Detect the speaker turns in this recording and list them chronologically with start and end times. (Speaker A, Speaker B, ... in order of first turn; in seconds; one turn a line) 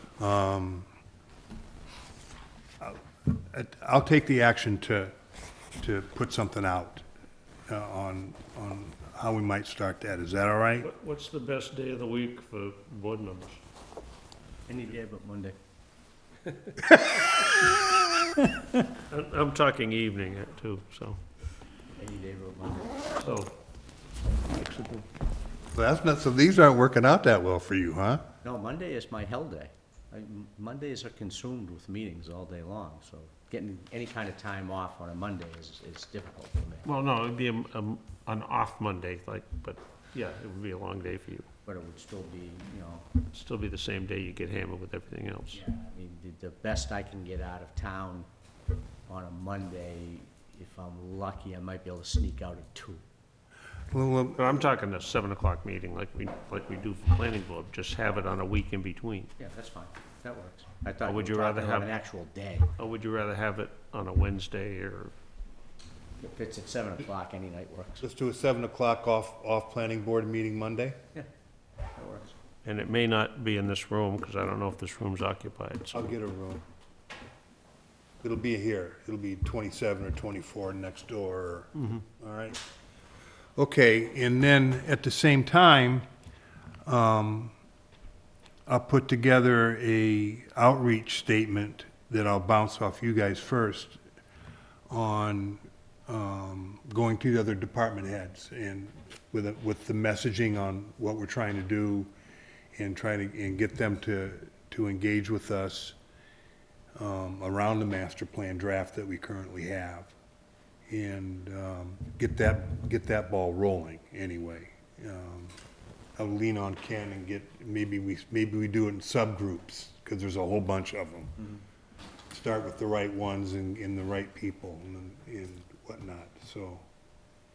Speaker A: 0.2-0.9
Speaker A: 3.5-5.1
Speaker A: 5.8-7.0
Speaker A: 7.7-10.9
Speaker B: 10.8-13.6
Speaker C: 14.7-15.6
Speaker B: 19.1-21.2
Speaker C: 22.0-23.1
Speaker B: 23.2-23.5
Speaker B: 24.7-25.0
Speaker A: 25.7-28.2
Speaker C: 28.4-36.8
Speaker B: 36.8-41.5
Speaker C: 41.6-43.1
Speaker B: 43.3-45.6
Speaker C: 45.5-48.3
Speaker C: 49.1-53.0
Speaker A: 53.9-54.6
Speaker B: 54.4-59.3
Speaker C: 59.4-62.7
Speaker B: 61.0-62.0
Speaker B: 62.8-65.1
Speaker C: 66.2-68.0
Speaker A: 68.0-71.0
Speaker C: 71.9-72.3
Speaker B: 72.6-76.1
Speaker A: 75.9-76.6
Speaker A: 78.2-82.6
Speaker A: 83.5-86.0
Speaker A: 86.8-87.5
Speaker A: 88.7-94.0
Speaker A: 94.9-102.1
Speaker A: 102.8-106.0
Speaker A: 107.0-110.1
Speaker A: 110.9-115.5
Speaker A: 116.2-121.5
Speaker A: 122.3-126.8